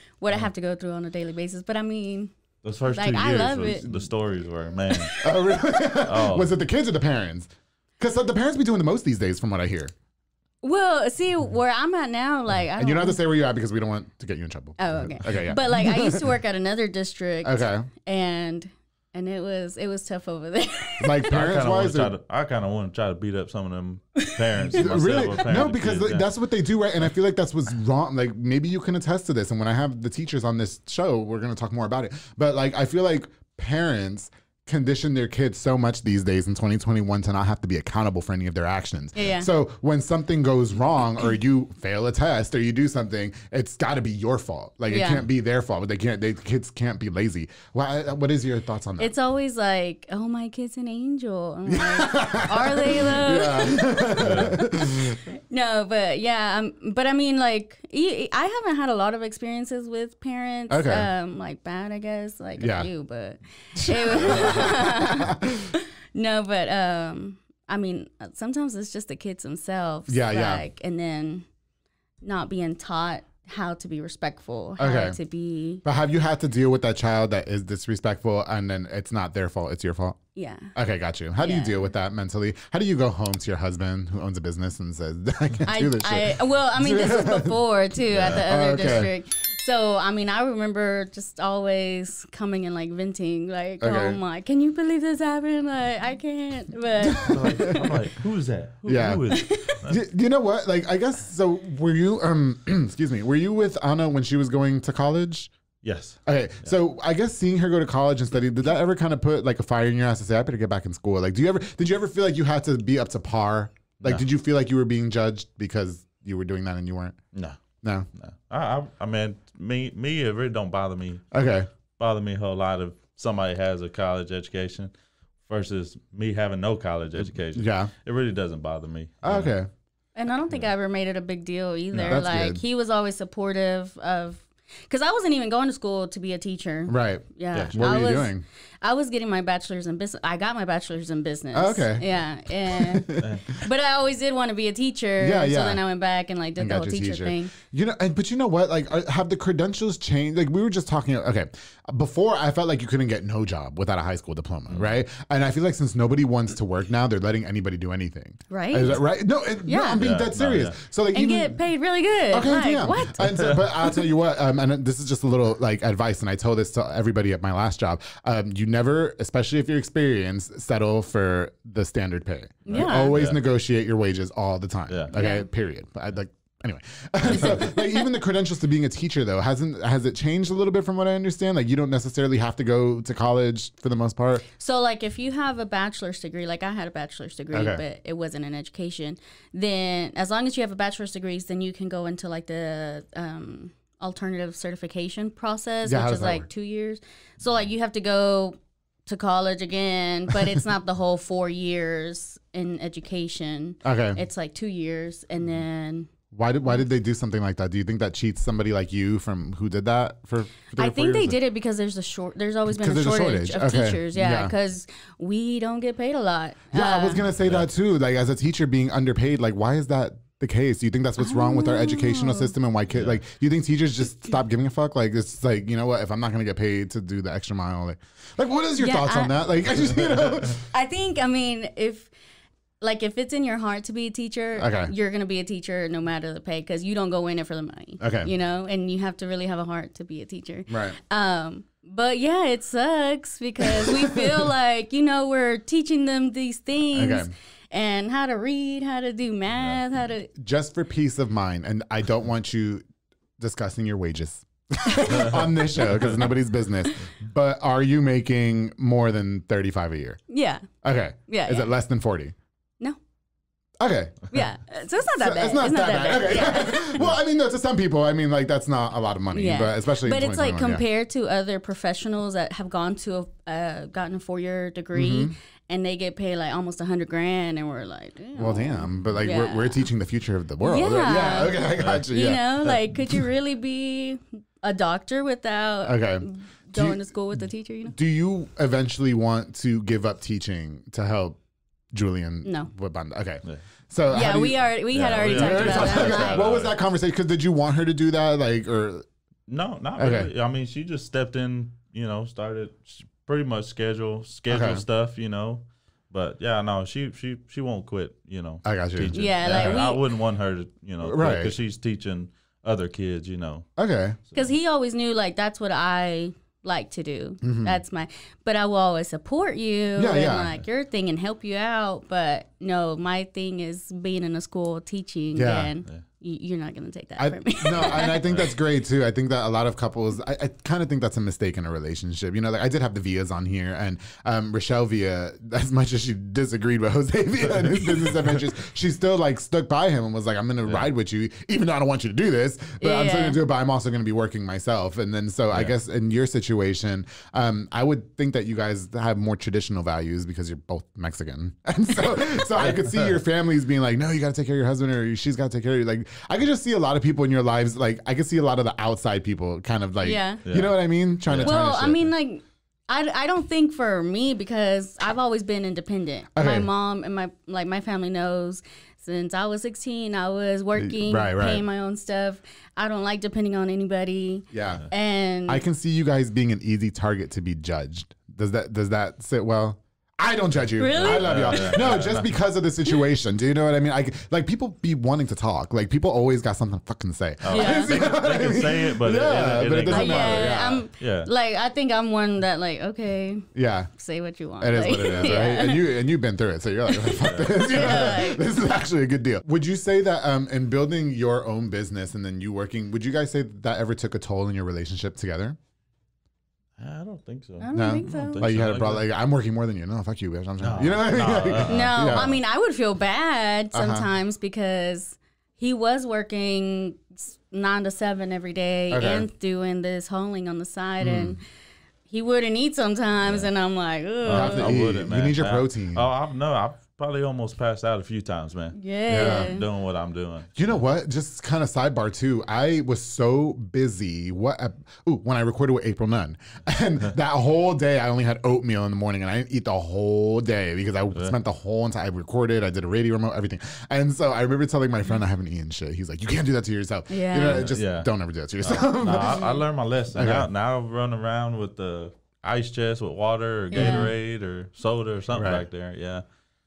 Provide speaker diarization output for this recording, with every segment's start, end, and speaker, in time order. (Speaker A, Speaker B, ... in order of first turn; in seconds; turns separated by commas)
Speaker A: 0.2-2.3, Speaker B: 2.6-5.2, Speaker A: 2.9-4.0, Speaker C: 5.2-9.9, Speaker B: 6.0-6.5, Speaker A: 10.6-13.2, Speaker C: 12.8-16.3, Speaker A: 14.8-21.2, Speaker C: 17.4-17.9, Speaker C: 21.0-22.1, Speaker B: 21.3-26.3, Speaker C: 24.8-49.1, Speaker A: 39.1-39.5, Speaker A: 44.9-45.3, Speaker A: 49.0-71.5, Speaker C: 51.7-55.2, Speaker B: 54.2-54.6, Speaker C: 60.7-61.1, Speaker C: 62.6-62.9, Speaker C: 63.7-65.7, Speaker C: 70.1-70.6, Speaker A: 72.2-75.8, Speaker C: 74.8-75.2, Speaker C: 75.8-80.2, Speaker A: 80.3-80.7, Speaker C: 80.7-87.5, Speaker A: 81.4-81.9, Speaker A: 85.7-97.3, Speaker B: 88.2-88.4, Speaker C: 88.2-89.1, Speaker C: 93.8-94.2, Speaker C: 97.0-97.9, Speaker B: 97.2-100.0, Speaker C: 98.8-99.3, Speaker C: 99.9-105.5, Speaker B: 105.8-106.7, Speaker C: 106.2-117.2, Speaker B: 114.0-114.2, Speaker B: 117.3-117.6, Speaker B: 118.1-121.3, Speaker C: 121.3-121.7, Speaker B: 122.0-124.9, Speaker B: 125.4-129.6, Speaker C: 127.2-127.9, Speaker C: 129.2-129.7, Speaker A: 130.2-147.5, Speaker C: 131.9-132.6, Speaker C: 136.9-138.4, Speaker C: 141.5-143.3, Speaker B: 143.2-143.4, Speaker C: 145.2-145.8, Speaker C: 146.6-161.6, Speaker A: 158.5-159.0, Speaker A: 159.7-160.0, Speaker B: 160.0-160.8, Speaker A: 161.1-163.6, Speaker C: 162.3-184.4, Speaker B: 172.7-173.4, Speaker A: 172.7-173.2, Speaker B: 174.9-175.1, Speaker A: 175.1-175.5, Speaker A: 184.6-206.1, Speaker C: 187.5-187.8, Speaker C: 195.8-196.4, Speaker C: 203.8-204.2, Speaker C: 206.3-211.4, Speaker A: 210.8-217.2, Speaker C: 212.7-214.5, Speaker C: 216.7-230.6, Speaker A: 221.2-222.5, Speaker B: 222.9-223.2, Speaker A: 228.8-229.3, Speaker A: 230.6-232.1, Speaker A: 232.8-250.3, Speaker C: 234.6-234.9, Speaker C: 238.0-238.3, Speaker C: 240.7-241.0, Speaker C: 243.7-244.4, Speaker C: 246.9-247.3, Speaker C: 250.3-252.8, Speaker C: 253.4-260.2, Speaker B: 255.1-255.5, Speaker A: 260.3-260.6, Speaker C: 260.8-262.3, Speaker A: 261.3-261.7, Speaker C: 263.8-264.3, Speaker A: 264.3-267.0, Speaker C: 265.1-270.8, Speaker A: 269.3-279.9, Speaker C: 274.9-275.3, Speaker C: 278.3-282.8, Speaker A: 280.6-287.9, Speaker B: 281.8-282.0, Speaker C: 285.8-287.1, Speaker C: 287.9-291.4, Speaker C: 291.9-299.1, Speaker A: 292.4-292.7, Speaker A: 294.1-296.5, Speaker B: 294.9-296.8, Speaker B: 299.5-313.7, Speaker C: 300.0-300.3, Speaker C: 304.5-304.8, Speaker C: 308.6-309.8, Speaker A: 309.1-310.0, Speaker C: 311.0-311.5, Speaker C: 313.8-314.2, Speaker A: 314.3-328.3, Speaker C: 317.4-317.8, Speaker C: 319.9-320.6, Speaker C: 325.3-325.7, Speaker C: 327.2-362.1, Speaker B: 327.7-328.5, Speaker A: 342.8-343.4, Speaker B: 352.3-353.2, Speaker A: 360.0-360.4, Speaker B: 360.4-360.7, Speaker B: 361.2-361.8, Speaker A: 361.4-375.6, Speaker C: 366.4-366.7, Speaker C: 370.8-371.6, Speaker C: 374.5-374.9, Speaker C: 375.5-390.8, Speaker A: 380.8-381.8, Speaker B: 380.9-382.3, Speaker B: 387.4-391.3, Speaker A: 387.5-388.1, Speaker A: 389.9-395.9, Speaker C: 393.5-393.9, Speaker C: 394.6-405.6, Speaker B: 394.9-395.4, Speaker B: 397.2-398.2, Speaker A: 397.4-398.4, Speaker B: 406.8-409.1, Speaker A: 407.6-408.4, Speaker C: 407.7-412.3, Speaker B: 410.6-412.4, Speaker A: 411.6-421.4, Speaker C: 413.7-414.1, Speaker C: 418.9-419.3, Speaker C: 421.0-421.4, Speaker A: 422.1-424.7, Speaker B: 424.2-430.8, Speaker C: 424.3-426.0, Speaker A: 428.7-429.6, Speaker C: 429.1-429.5, Speaker C: 430.6-449.4, Speaker A: 447.1-447.7, Speaker B: 447.4-456.2, Speaker C: 450.1-450.5, Speaker A: 453.7-454.1, Speaker C: 453.7-454.1, Speaker C: 455.3-455.6